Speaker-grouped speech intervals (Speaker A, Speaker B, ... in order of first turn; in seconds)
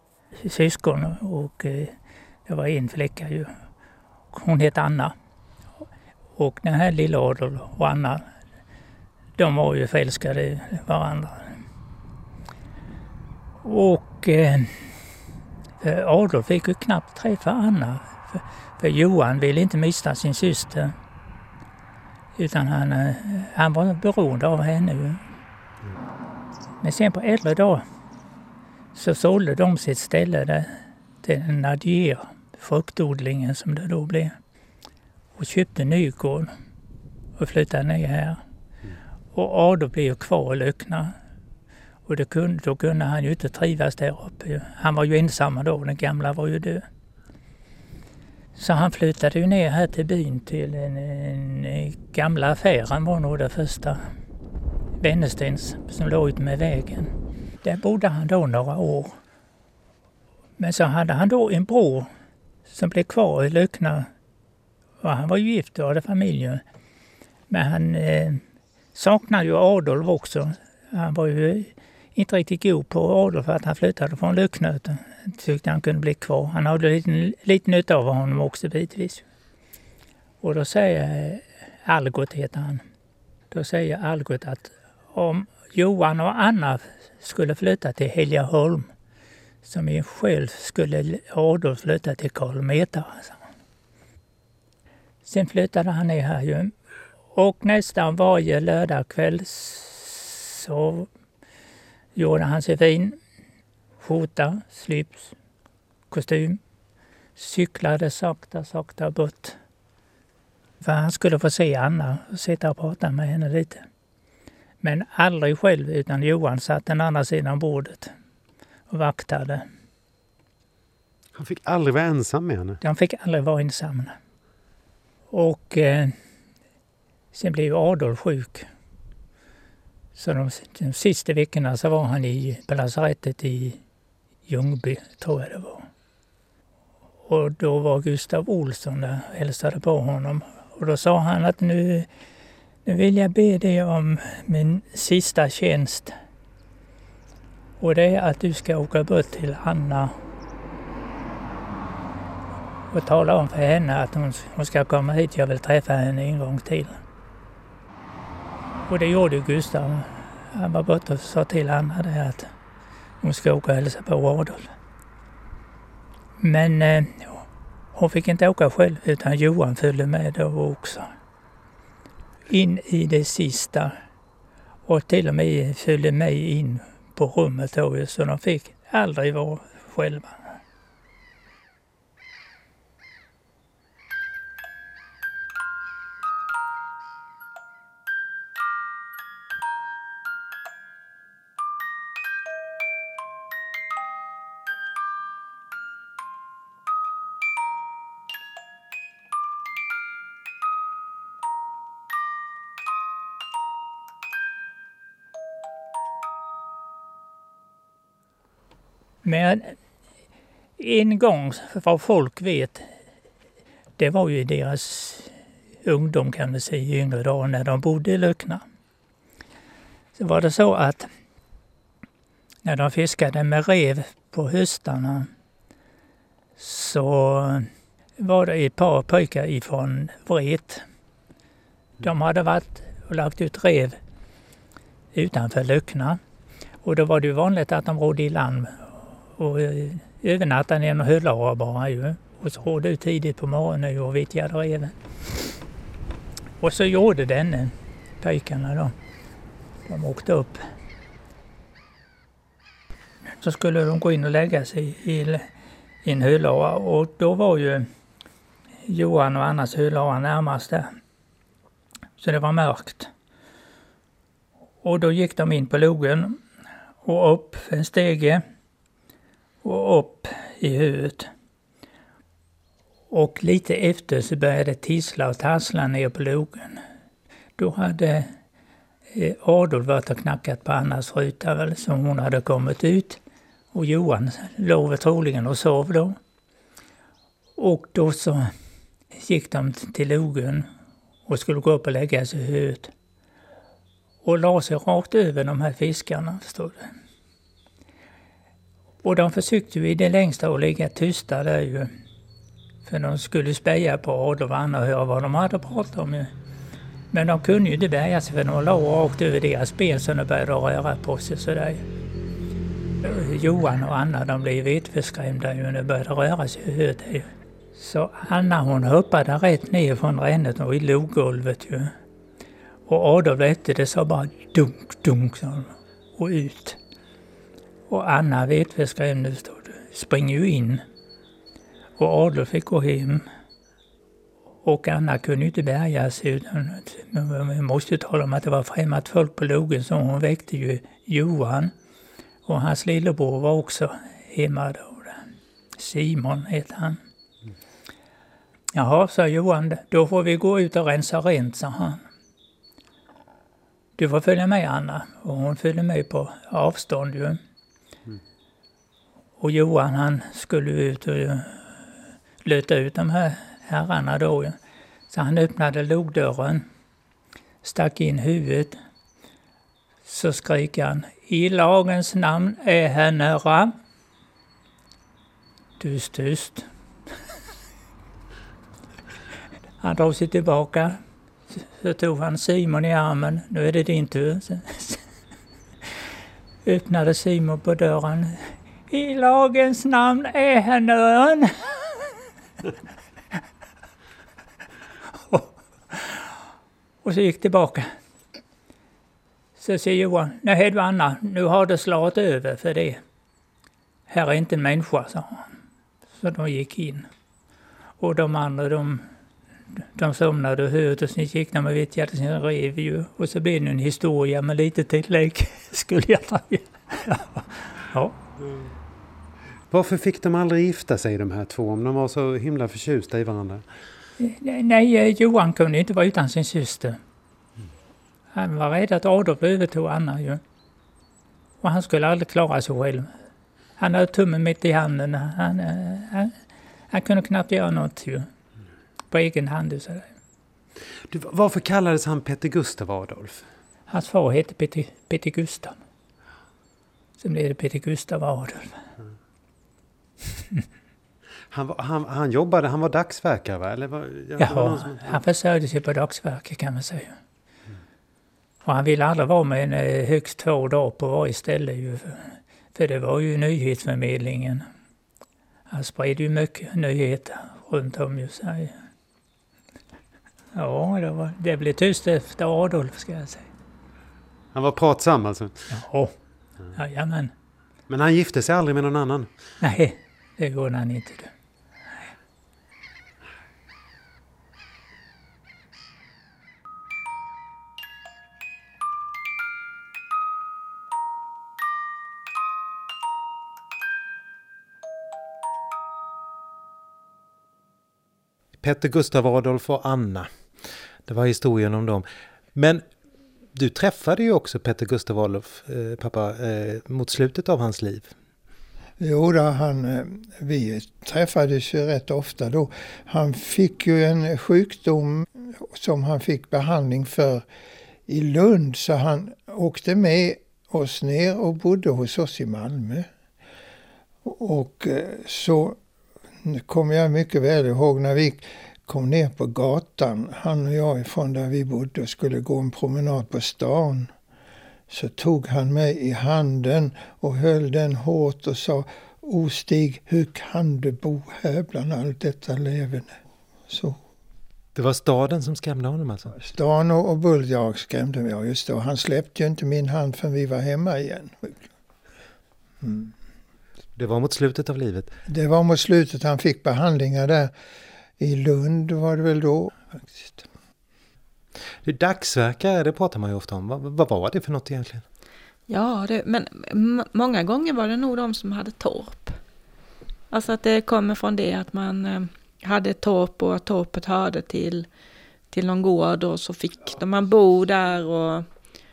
Speaker A: 0.4-1.9, 2.5-3.5, 4.3-5.1, 6.4-8.2, 9.4-11.6, 13.6-14.9, 15.8-20.9, 22.4-25.2, 26.8-27.8, 28.9-30.7, 31.2-34.3, 35.4-36.5, 37.4-38.4, 39.3-41.1, 42.0-46.8, 48.5-54.0, 55.0-57.1, 57.6-59.1, 60.6-62.1, 62.7-64.0, 65.0-66.6, 67.5-68.4, 68.9-79.2, 80.4-82.8, 83.5-88.9, 89.6-93.4, 95.2-96.7, 97.3-101.1, 102.2-103.2, 104.0-105.3, 106.1-106.6, 107.3-109.6, 110.8-113.8, 114.8-118.1, 118.9-119.6, 122.8-124.1, 125.3-126.1, 127.3-128.6, 130.1-133.8, 134.5-135.8, 137.2-142.1, 142.8-146.1, 147.8-150.1, 152.9-157.0, 158.9-162.5, 163.2-164.7, 166.4-171.1, 172.5-173.9, 174.8-180.6, 209.2-209.7, 210.8-212.9, 214.0-215.3, 215.8-218.6, 220.2-221.1, 222.6-225.3, 226.6-230.8, 232.0-234.0, 235.1-236.2, 236.8-244.9, 246.6-248.9, 249.8-250.6, 253.4-255.4, 256.0-257.8, 258.9-260.9, 262.2-263.1, 264.8-266.4, 267.0-268.4, 269.6-271.3, 273.1-276.8, 277.6-278.3, 279.1-283.2, 283.7-286.1, 287.6-288.5, 289.2-290.6, 291.3-292.9, 294.2-296.9, 299.0-301.9, 302.8-306.3, 307.1-311.8, 313.0-321.9, 322.9-326.8, 327.9-330.8, 332.0-333.2, 334.6-341.7, 342.4-345.2, 345.8-347.0, 348.7-352.0, 354.0-357.4, 359.4-361.7, 362.4-364.5, 365.1-366.6, 367.6-368.8, 370.1-373.7, 375.8-376.6, 379.8-381.0, 381.6-385.0, 386.6-392.2, 395.2-396.3, 397.0-397.9, 399.6-403.0, 404.1-405.4, 406.2-407.1, 408.0-409.0, 409.9-418.1, 424.2-427.0, 428.3-430.4, 431.6-433.1, 433.8-436.3, 436.9-438.2, 439.1-440.1, 443.9-445.8, 447.2-448.8, 454.4-457.1, 458.6-464.6, 465.7-468.7, 470.5-473.5, 475.7-476.1, 476.7-477.3, 479.6-481.3
Speaker B: 121.3-122.8, 419.7-423.6, 441.7-443.1, 451.6-455.2, 474.5-475.6, 477.9-479.3
Speaker C: 441.1-442.0, 442.5-443.4, 451.5-451.8, 452.4-452.9, 498.6-500.3, 501.1-502.8, 503.5-508.1, 544.7-546.3, 554.0-555.1, 561.8-565.0
Speaker D: 509.0-517.4, 518.1-523.1, 524.2-525.8, 526.4-534.1, 534.9-543.1, 543.7-544.0, 546.3-551.6, 552.8-553.1, 555.3-557.5, 558.2-560.4
Speaker E: 565.7-569.4, 570.3-574.9, 575.5-578.4